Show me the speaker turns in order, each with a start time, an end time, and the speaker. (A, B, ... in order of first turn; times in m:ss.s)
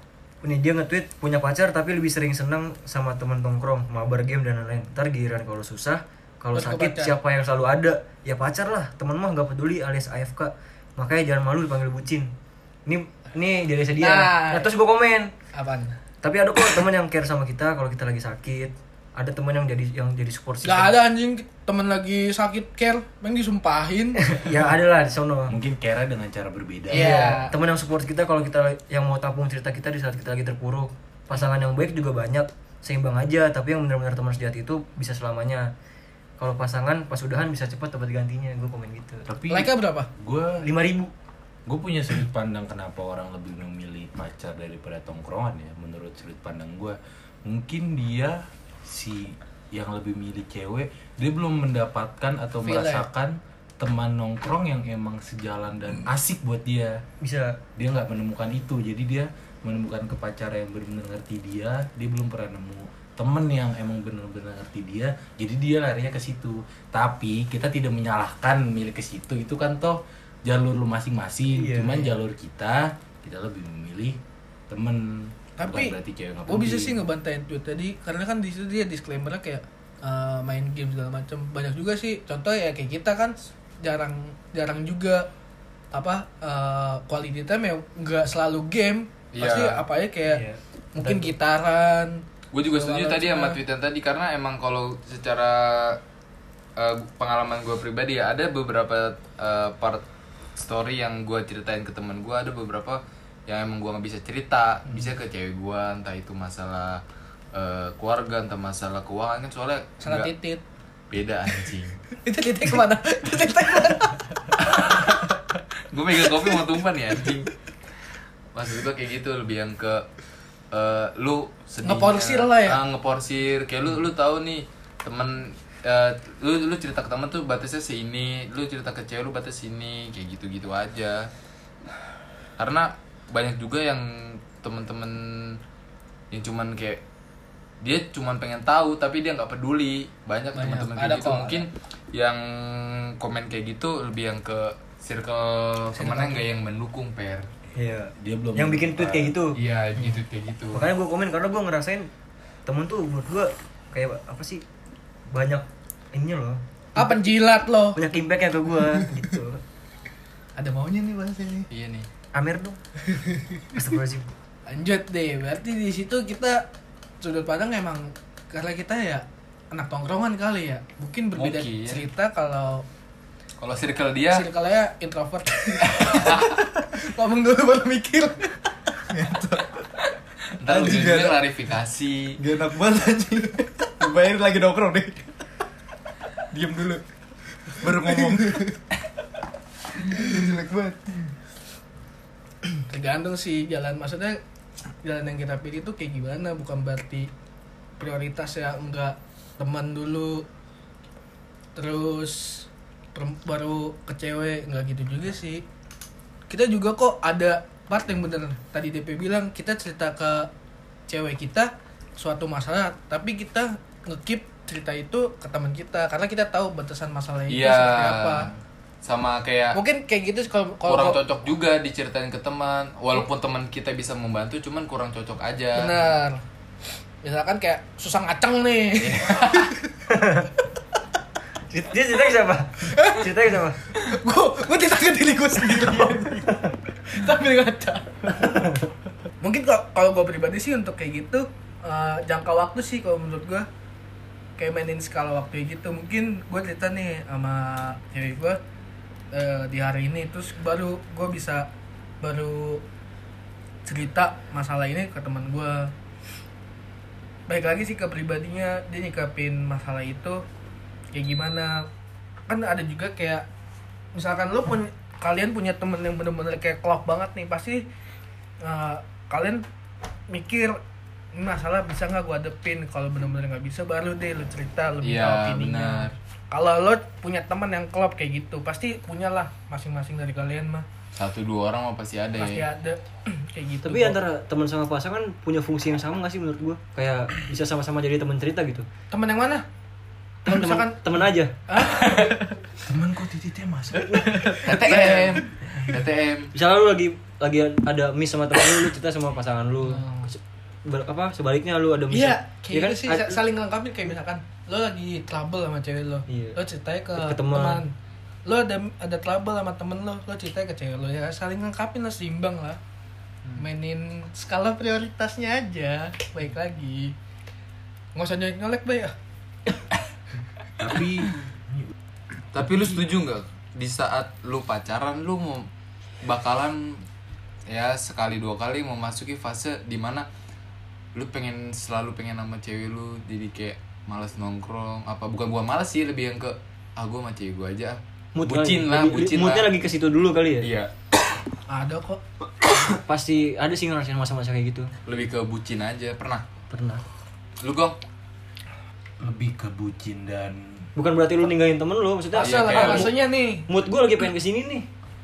0:00.4-0:12.3 A
0:06.5-0:07.2 B
0:12.9-0:15.3 A
0:14.0-0:14.7 B
0:15.5-0:16.0 B
0:16.2-0:20.9 A
0:20.6-0:24.4 B
0:24.2-0:25.6 A
0:25.5-0:27.4 C
0:26.9-0:27.6 B
0:26.9-0:35.7 A
0:36.4-0:39.3 A
0:39.3-0:40.7 C
0:39.5-0:40.1 B
0:40.6-0:41.1 A
0:41.7-0:57.0 C
0:52.6-0:53.1 B
0:57.2-0:57.6 A
0:57.8-1:17.0 C
1:11.5-1:12.2 A
1:15.6-1:25.3 B
1:25.9-1:30.4 B
1:29.3-1:29.8 D
1:30.3-1:31.3 A
1:31.0-1:33.6 B
1:32.5-1:36.0 D
1:36.8-1:40.0 D
1:40.6-1:47.0 D
1:47.5-1:50.3 D
1:50.0-1:50.6 B
1:51.1-1:52.0 D
1:52.2-1:55.2 B
1:54.6-1:55.1 D
1:55.9-1:57.5 D
1:58.5-2:00.1 D
2:00.7-2:11.3 D
2:01.8-2:02.8 B
2:12.6-2:15.6 D
2:16.3-2:17.0 D
2:17.8-2:27.5 D
2:20.6-2:21.6 B
2:26.0-2:26.4 B
2:27.8-2:29.6 A
2:28.2-2:29.4 C
2:29.6-2:30.9 D
2:30.7-2:32.1 A
2:32.6-2:34.6 A
2:35.3-2:37.3 A
2:37.0-2:38.0 B
2:37.9-2:39.6 A
2:40.6-2:41.7 B
2:41.7-2:42.1 D
2:42.3-2:42.8 A
2:43.1-2:43.5 B
2:43.7-2:44.3 A
2:44.7-2:46.7 B
2:47.2-2:52.9 B
2:51.4-2:52.1 D
2:53.6-2:54.5 D
2:54.3-2:58.6 B
2:55.9-2:56.6 D
2:59.1-2:59.8 E
3:00.6-3:02.4 D
3:00.6-3:01.4 E
3:02.4-3:05.3 E
3:06.5-3:07.0 E
3:07.7-3:08.8 E
3:10.0-3:11.3 E
3:12.9-3:14.4 B
3:15.0-3:17.3 B
3:18.0-3:20.5 B
3:21.8-3:25.6 B
3:26.5-3:30.5 B
3:31.1-3:38.5 B
3:37.5-3:39.8 D
3:39.7-3:41.2 B
3:40.9-3:45.9 D
3:45.8-3:46.4 B
3:47.2-3:49.7 B
3:49.0-3:49.7 D
3:50.1-3:50.5 A
3:51.7-3:53.8 A
3:52.9-3:53.2 B
3:53.9-3:58.6 B
3:58.4-3:58.8 A
3:59.4-4:03.7 B
4:04.6-4:08.6 B
4:09.3-4:11.7 B
4:12.2-4:12.8 B
4:13.8-4:15.9 B
4:17.5-4:20.4 B
4:21.1-4:21.9 B
4:22.5-4:23.4 B
4:24.1-4:27.8 B
4:28.6-4:29.6 B
4:30.3-4:30.8 B
4:31.3-4:40.9 B
4:35.0-4:36.1 D
4:41.2-4:42.6 D
4:42.4-4:44.2 B
4:43.8-4:48.9 A
4:49.1-4:49.6 B
4:50.5-4:51.0 B
4:50.5-4:51.5 A
4:51.7-4:52.6 B
4:52.8-4:54.3 C
4:54.0-4:55.4 B
4:54.6-4:56.5 D
4:54.9-4:55.2 A
4:56.6-5:03.4 A
4:59.8-5:00.3 B
5:02.1-5:12.8 B
5:06.3-5:06.6 A
5:07.2-5:07.8 A
5:13.6-5:17.2 B
5:18.2-5:19.1 B
5:20.8-5:21.9 C
5:22.5-5:25.7 D
5:26.2-5:27.0 D
5:27.7-5:30.3 D
5:31.2-5:39.7 D
5:38.4-5:40.7 A
5:40.6-5:40.9 D
5:41.7-5:42.2 B
5:42.8-5:44.9 A
5:45.1-5:46.4 D
5:46.7-5:47.0 A
5:47.6-5:48.0 D
5:49.2-5:50.9 C
5:51.0-5:54.9 A
5:52.3-5:53.7 B
5:52.4-5:53.1 D